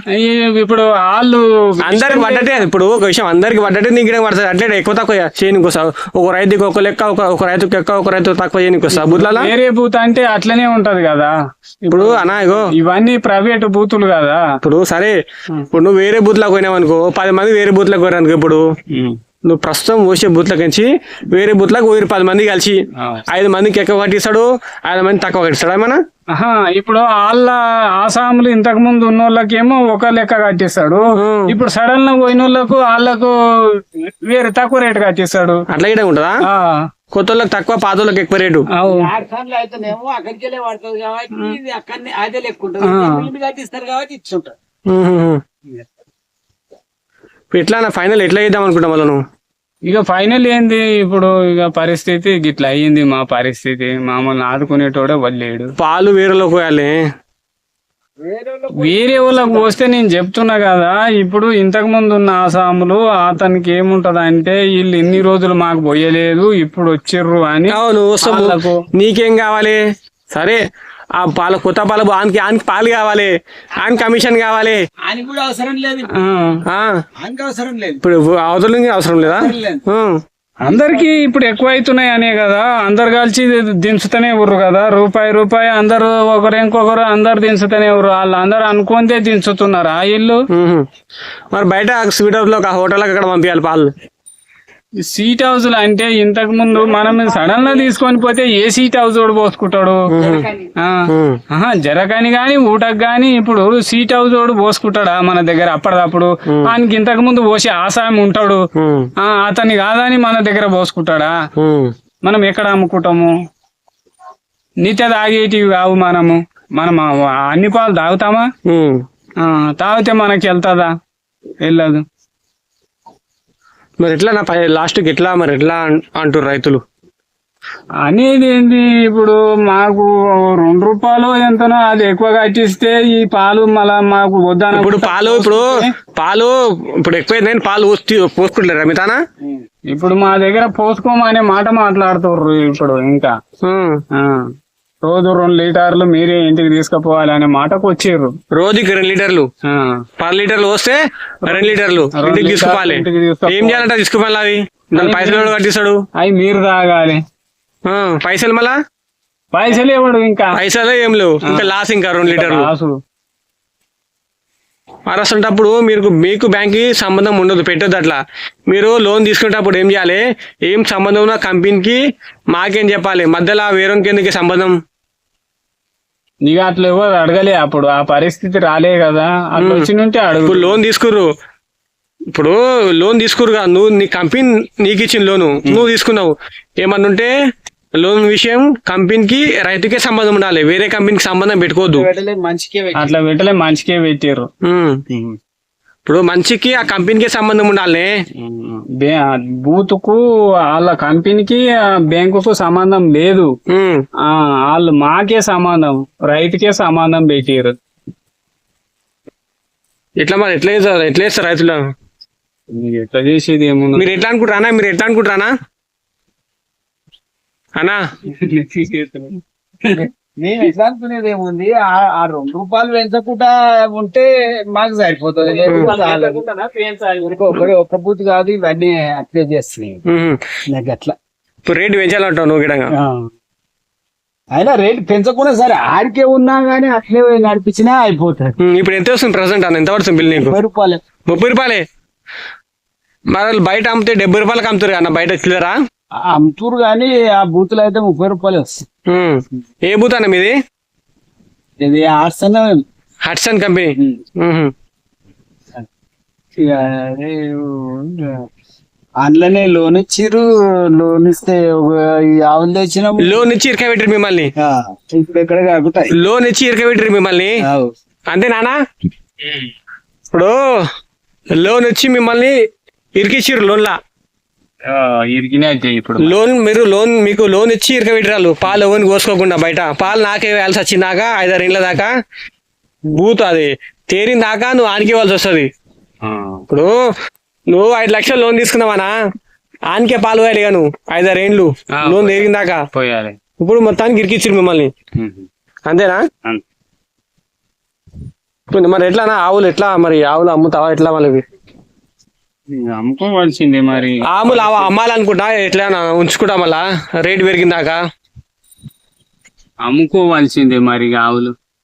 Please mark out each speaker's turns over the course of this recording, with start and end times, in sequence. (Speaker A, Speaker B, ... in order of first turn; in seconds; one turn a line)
Speaker A: 0.2-2.6
Speaker B: 1.9-9.5
Speaker A: 8.9-14.4
Speaker B: 11.9-12.7
Speaker B: 14.6-15.1
Speaker B: 15.7-18.6
Speaker B: 19.4-22.8
Speaker B: 23.3-26.0
Speaker A: 26.3-35.6
Speaker B: 31.2-31.5
Speaker B: 35.7-36.4
Speaker A: 36.5-36.8
Speaker B: 37.1-38.6
Speaker A: 38.7-39.1
Speaker C: 38.8-44.5
Speaker A: 42.8-43.3
Speaker B: 44.9-45.4
Speaker B: 47.5-49.2
Speaker A: 49.8-55.7
Speaker B: 55.8-56.9
Speaker C: 58.2-59.8
Speaker A: 58.8-68.8
Speaker B: 67.7-69.8
Speaker B: 70.3-70.6
Speaker B: 71.2-74.8
Speaker C: 75.0-76.1
Speaker A: 76.1-76.6
Speaker B: 76.7-76.9
Speaker C: 77.2-78.0
Speaker B: 78.0-80.2
Speaker C: 79.2-79.8
Speaker A: 80.6-90.4
Speaker B: 90.5-90.8
Speaker B: 91.5-93.9
Speaker A: 95.0-100.0
Speaker C: 96.8-97.9
Speaker B: 100.1-100.5
Speaker C: 100.2-100.7
Speaker B: 101.1-101.4
Speaker A: 101.5-108.6
Speaker B: 108.8-109.1
Speaker A: 109.2-111.3
Speaker B: 111.6-111.9
Speaker A: 112.2-113.3
Speaker A: 114.8-118.4
Speaker B: 118.7-119.0
Speaker A: 119.4-120.9
Speaker A: 121.6-122.0
Speaker B: 124.0-126.8
Speaker A: 128.0-135.9
Speaker B: 134.7-139.2
Speaker A: 139.9-143.3
Speaker B: 143.6-144.0
Speaker A: 144.1-144.5
Speaker A: 145.0-148.3
Speaker B: 148.5-149.5
Speaker A: 149.7-150.0
Speaker B: 150.2-156.0
Speaker A: 151.4-153.9
Speaker A: 154.9-155.5
Speaker A: 156.2-157.2
Speaker B: 157.8-158.7
Speaker A: 159.5-160.6
Speaker B: 160.6-162.7
Speaker A: 162.2-162.9
Speaker B: 165.1-168.2
Speaker B: 168.7-172.0
Speaker B: 172.5-174.7
Speaker A: 176.4-180.8
Speaker B: 179.6-179.9
Speaker B: 180.5-181.3
Speaker B: 182.3-187.3
Speaker B: 188.0-192.1
Speaker C: 191.9-193.1
Speaker A: 192.9-194.4
Speaker B: 194.7-195.0
Speaker B: 196.1-198.1
Speaker A: 198.4-200.2
Speaker A: 200.7-203.5
Speaker B: 203.7-204.0
Speaker A: 204.3-207.7
Speaker B: 210.2-211.8
Speaker A: 212.7-214.1
Speaker B: 214.0-215.5
Speaker A: 218.3-219.4
Speaker C: 219.9-226.4
Speaker A: 225.4-227.7
Speaker B: 225.7-225.9
Speaker C: 227.2-230.0
Speaker B: 230.1-230.4
Speaker C: 230.7-231.1
Speaker B: 231.7-232.9
Speaker C: 232.9-233.3
Speaker C: 234.5-238.6
Speaker B: 238.6-240.6
Speaker C: 240.2-241.0
Speaker B: 241.3-241.8
Speaker B: 243.3-245.8
Speaker C: 246.3-248.8
Speaker B: 249.1-250.5
Speaker C: 251.8-252.8
Speaker B: 253.2-254.7
Speaker C: 256.6-258.4
Speaker C: 259.2-263.4
Speaker B: 263.2-264.5
Speaker C: 264.6-266.1
Speaker B: 266.1-267.6
Speaker C: 267.6-267.9
Speaker B: 268.3-268.7
Speaker B: 270.3-270.6
Speaker B: 271.6-272.5
Speaker B: 273.1-273.9
Speaker A: 274.9-276.4
Speaker B: 276.2-282.1
Speaker B: 283.1-285.7
Speaker A: 286.2-286.6
Speaker B: 287.7-289.1
Speaker B: 289.9-292.8
Speaker A: 291.9-293.4
Speaker B: 293.6-294.9
Speaker A: 295.2-295.4
Speaker B: 295.9-296.2
Speaker B: 298.7-301.4
Speaker A: 302.7-304.9
Speaker B: 304.3-308.0
Speaker A: 309.8-311.5